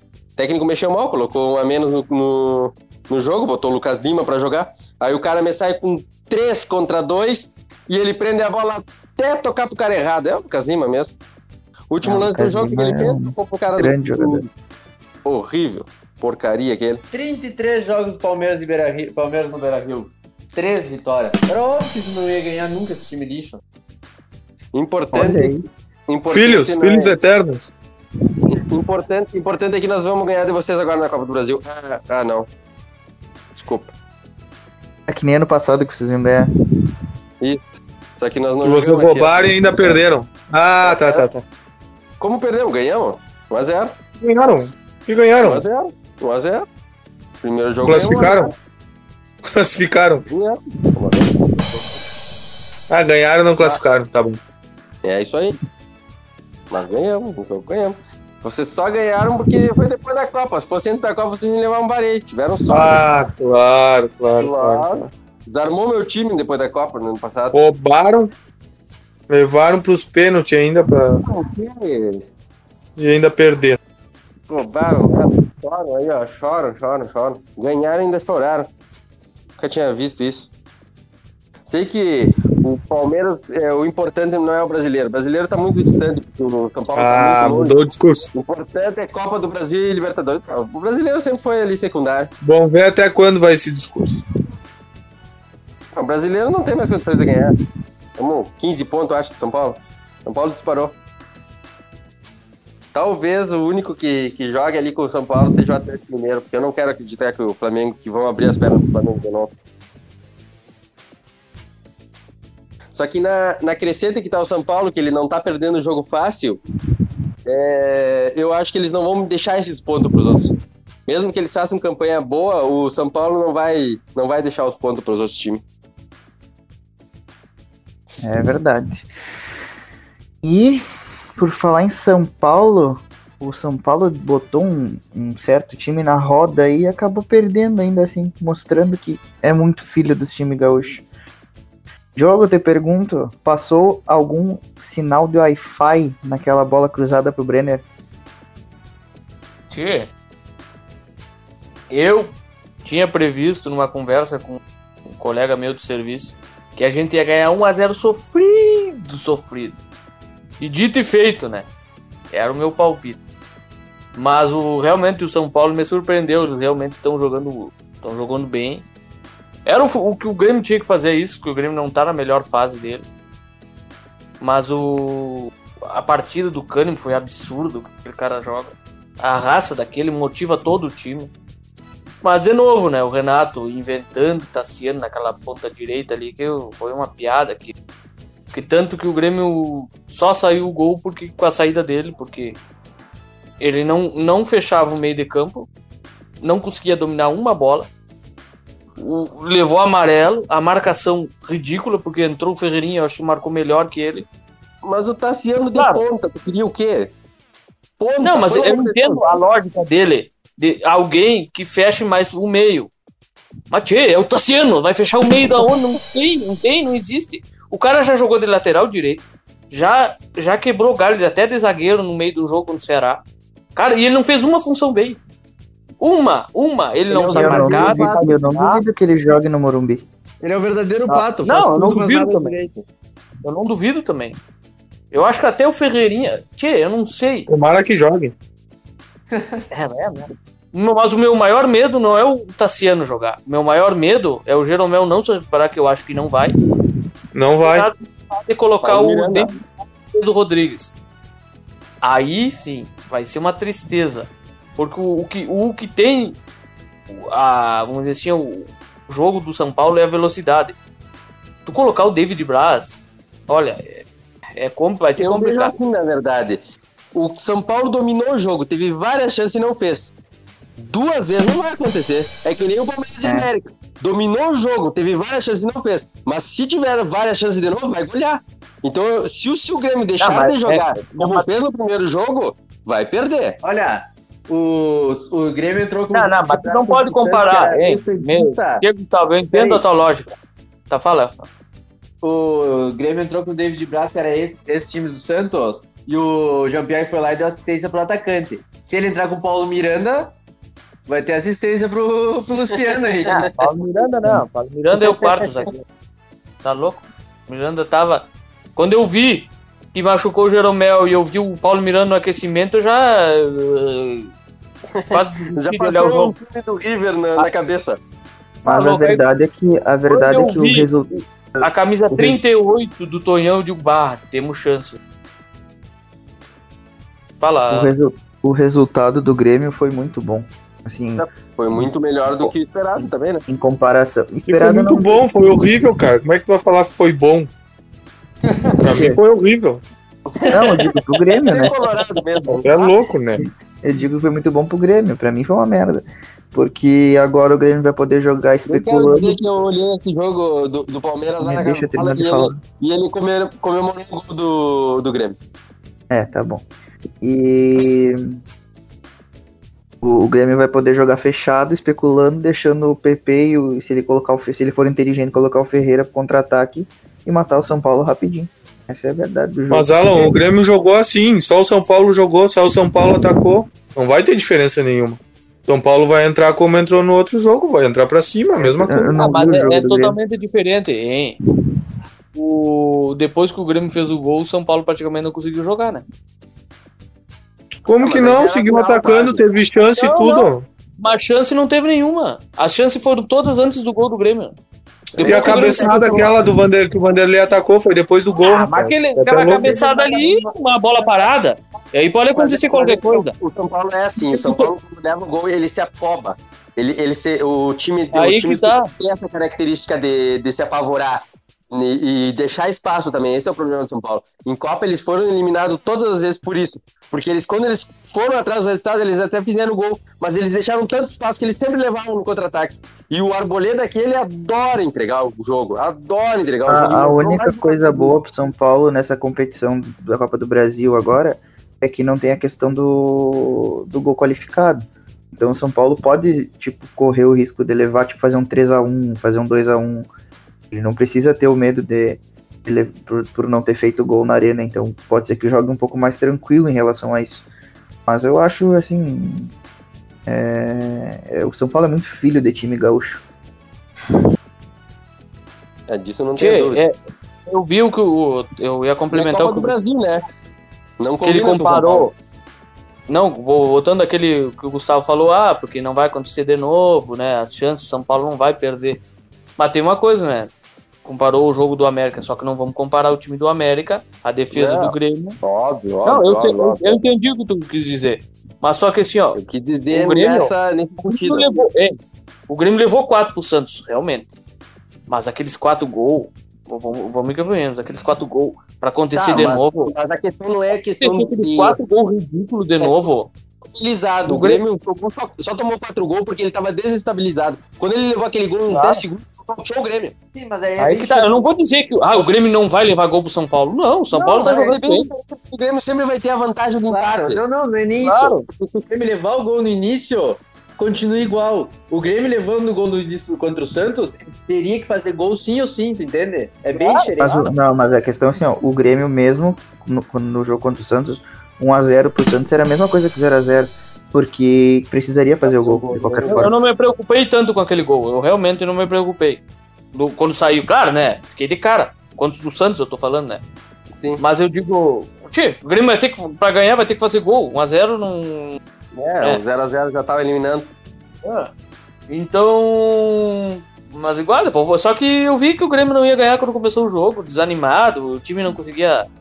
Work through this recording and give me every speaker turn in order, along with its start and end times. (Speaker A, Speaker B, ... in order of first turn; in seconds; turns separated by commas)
Speaker A: 0.4-11.2, Speaker A: 11.9-14.4, Speaker B: 12.0-14.4, Speaker A: 15.2-17.0, Speaker C: 17.1-23.6, Speaker A: 24.7-25.5, Speaker B: 25.1-25.6, Speaker A: 26.1-27.1, Speaker D: 26.3-27.7, Speaker A: 28.4-32.5, Speaker A: 33.5-33.9, Speaker B: 35.1-36.5, Speaker A: 37.4-40.0, Speaker D: 38.6-41.4, Speaker A: 40.8-41.2, Speaker A: 42.2-44.0, Speaker D: 44.2-45.6, Speaker A: 45.4-46.6, Speaker A: 47.4-48.5, Speaker D: 47.8-48.5, Speaker D: 49.5-50.2, Speaker A: 50.3-51.8, Speaker D: 52.9-54.4, Speaker A: 55.0-55.6, Speaker A: 56.7-63.0, Speaker D: 62.7-65.1, Speaker A: 64.3-67.6, Speaker D: 67.5-68.3, Speaker D: 69.3-71.2, Speaker A: 71.2-72.2, Speaker D: 73.0-73.8, Speaker A: 74.5-78.7, Speaker A: 79.6-80.5, Speaker A: 81.7-87.8, Speaker D: 86.9-88.3, Speaker A: 88.3-92.3, Speaker D: 92.4-94.2, Speaker A: 95.9-97.5, Speaker A: 98.2-101.0, Speaker A: 102.9-109.5, Speaker A: 112.9-116.6, Speaker A: 117.5-120.5, Speaker A: 121.1-125.6, Speaker B: 128.2-129.1, Speaker B: 130.4-130.8, Speaker B: 131.4-141.0, Speaker B: 142.1-147.8, Speaker E: 149.7-150.1, Speaker E: 151.9-154.6, Speaker E: 155.1-159.8, Speaker E: 160.6-161.7, Speaker E: 162.3-163.2, Speaker E: 164.2-168.8, Speaker E: 169.7-173.1, Speaker E: 174.4-181.3, Speaker E: 182.2-187.7, Speaker E: 188.5-192.6, Speaker E: 193.6-195.7, Speaker E: 196.4-197.9, Speaker E: 199.0-204.2, Speaker A: 204.8-207.1, Speaker E: 205.8-206.0, Speaker A: 208.0-209.4, Speaker E: 208.2-212.9, Speaker E: 213.7-223.2, Speaker E: 223.8-225.2, Speaker E: 226.0-228.8, Speaker C: 227.1-228.3, Speaker B: 227.3-230.0, Speaker C: 230.4-232.8, Speaker E: 231.1-232.5, Speaker E: 233.4-234.4, Speaker E: 235.1-237.5, Speaker D: 237.5-238.3, Speaker C: 239.3-239.6, Speaker E: 239.7-246.5, Speaker D: 247.3-247.9, Speaker E: 247.6-249.5, Speaker A: 248.8-249.6, Speaker E: 250.1-250.9, Speaker E: 252.0-256.4, Speaker E: 257.1-260.8, Speaker E: 261.6-265.8, Speaker A: 265.2-266.6, Speaker A: 267.1-270.1, Speaker A: 270.9-283.6, Speaker B: 273.2-273.5, Speaker E: 280.2-281.5, Speaker C: 283.6-288.8, Speaker E: 286.1-290.4, Speaker C: 289.5-289.8, Speaker E: 290.9-291.4, Speaker C: 292.2-300.3, Speaker C: 301.1-303.5, Speaker E: 303.2-305.8, Speaker E: 306.6-314.3, Speaker A: 314.9-318.0, Speaker E: 315.1-316.3, Speaker E: 318.6-319.2, Speaker B: 318.6-322.4, Speaker E: 320.1-325.0, Speaker E: 327.4-327.9, Speaker B: 327.7-331.2, Speaker A: 331.2-333.4, Speaker B: 333.5-335.2, Speaker D: 334.5-337.5, Speaker C: 338.4-338.8, Speaker D: 338.8-339.8, Speaker B: 338.9-339.2, Speaker A: 340.4-340.7, Speaker B: 340.5-341.7, Speaker A: 341.4-343.0, Speaker D: 342.6-343.4, Speaker B: 343.4-349.4, Speaker A: 348.7-355.4, Speaker B: 351.4-352.6, Speaker B: 356.1-356.6, Speaker B: 357.2-358.4, Speaker B: 360.0-370.3, Speaker D: 369.7-379.2, Speaker B: 378.6-380.2, Speaker E: 379.1-381.4, Speaker E: 382.3-386.0, Speaker D: 387.8-390.7, Speaker A: 388.0-389.4, Speaker E: 389.9-394.6, Speaker D: 395.1-399.8, Speaker A: 395.2-396.3, Speaker E: 395.2-396.2, Speaker C: 395.2-396.1, Speaker E: 398.4-403.3, Speaker C: 399.6-400.5, Speaker A: 402.3-428.2, Speaker E: 404.2-404.7, Speaker E: 408.1-408.9, Speaker B: 426.6-440.1, Speaker B: 440.7-447.4, Speaker B: 448.0-449.5, Speaker B: 450.2-453.2, Speaker A: 455.9-456.8, Speaker E: 456.4-456.9, Speaker E: 457.5-459.7, Speaker A: 459.1-460.2, Speaker A: 461.0-462.1, Speaker E: 461.2-462.1, Speaker E: 463.1-469.0, Speaker E: 469.6-470.5, Speaker E: 471.0-475.4, Speaker A: 474.5-477.0, Speaker E: 476.0-479.4, Speaker A: 479.3-481.6, Speaker E: 479.9-480.5, Speaker E: 481.0-482.0, Speaker E: 482.5-484.3, Speaker E: 485.1-489.9, Speaker A: 489.1-491.8, Speaker E: 491.0-493.3, Speaker A: 492.8-493.1, Speaker A: 493.7-500.1, Speaker E: 494.2-494.6, Speaker E: 498.7-499.0, Speaker C: 500.3-501.4, Speaker E: 500.8-505.1, Speaker A: 504.1-507.4, Speaker C: 504.4-504.8, Speaker C: 506.9-517.5, Speaker E: 508.0-508.4, Speaker E: 516.7-517.1, Speaker B: 517.2-526.5, Speaker C: 525.5-526.4, Speaker E: 526.2-529.4, Speaker E: 529.9-533.4, Speaker A: 533.9-534.2, Speaker E: 534.2-538.6, Speaker A: 538.9-540.7, Speaker E: 541.2-541.5, Speaker E: 542.1-549.0